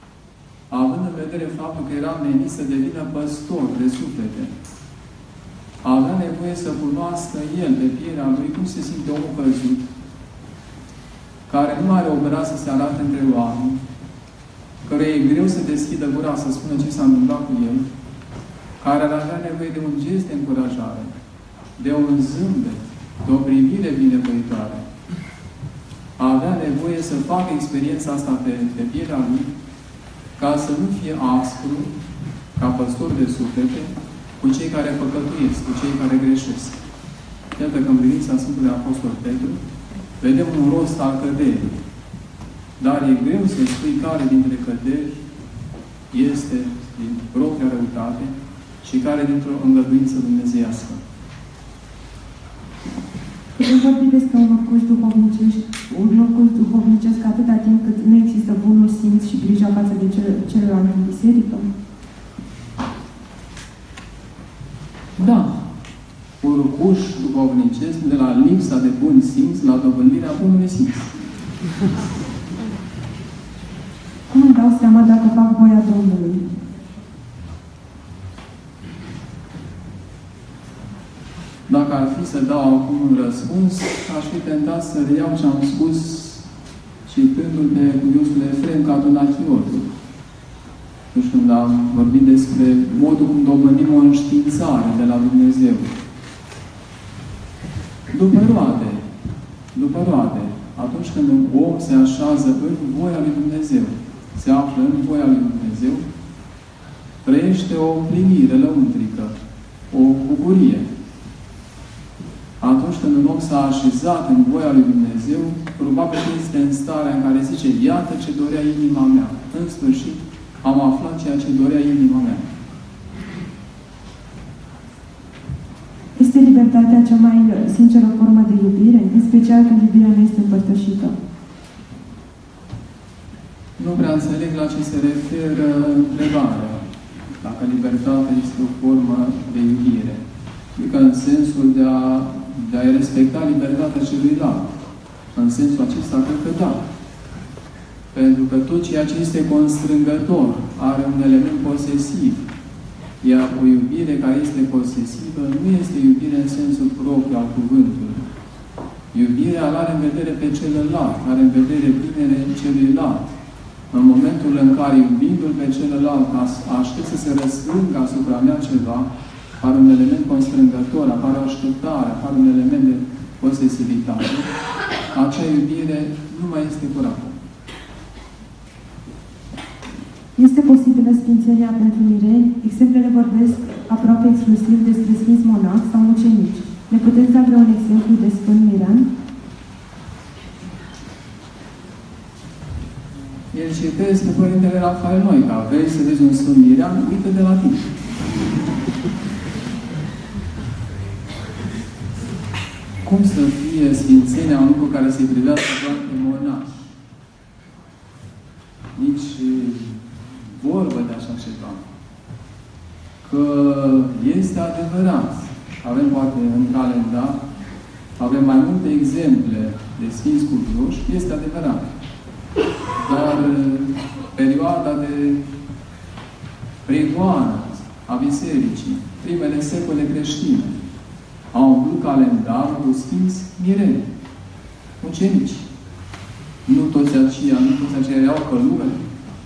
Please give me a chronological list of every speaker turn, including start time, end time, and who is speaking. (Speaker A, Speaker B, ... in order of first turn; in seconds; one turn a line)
Speaker A: 0.7-4.5
Speaker A: 5.8-9.9
Speaker A: 11.5-13.8
Speaker A: 14.8-17.9
Speaker A: 18.8-21.1
Speaker A: 21.8-24.8
Speaker A: 26.2-29.5
Speaker A: 30.4-31.9
Speaker A: 32.6-36.8
Speaker A: 37.5-39.6
Speaker A: 40.2-41.7
Speaker A: 42.8-45.2
Speaker A: 46.1-51.0
Speaker B: 53.5-61.7
Speaker A: 65.2-65.6
Speaker A: 66.4-71.2
Speaker B: 74.3-76.5
Speaker A: 81.7-86.4
Speaker A: 87.0-89.9
Speaker A: 91.1-95.9
Speaker A: 98.1-99.0
Speaker A: 99.7-106.0
Speaker A: 107.2-109.3
Speaker A: 109.9-110.9
Speaker A: 112.6-122.5
Speaker B: 126.2-131.2
Speaker A: 133.8-136.8
Speaker A: 137.4-140.2
Speaker A: 140.7-144.7
Speaker A: 145.3-146.8
Speaker A: 148.1-152.4
Speaker A: 153.2-158.3
Speaker A: 159.1-163.3
Speaker A: 163.9-169.1
Speaker A: 169.6-174.5
Speaker A: 175.1-177.3
Speaker B: 180.3-189.1
Speaker A: 193.5-197.8
Speaker A: 203.0-206.9
Speaker A: 208.9-211.8
Speaker A: 213.2-217.4
Speaker A: 218.2-221.8
Speaker A: 223.0-225.4
Speaker A: 226.8-230.7
Speaker A: 231.5-234.1
Speaker A: 235.0-235.7
Speaker A: 236.7-239.0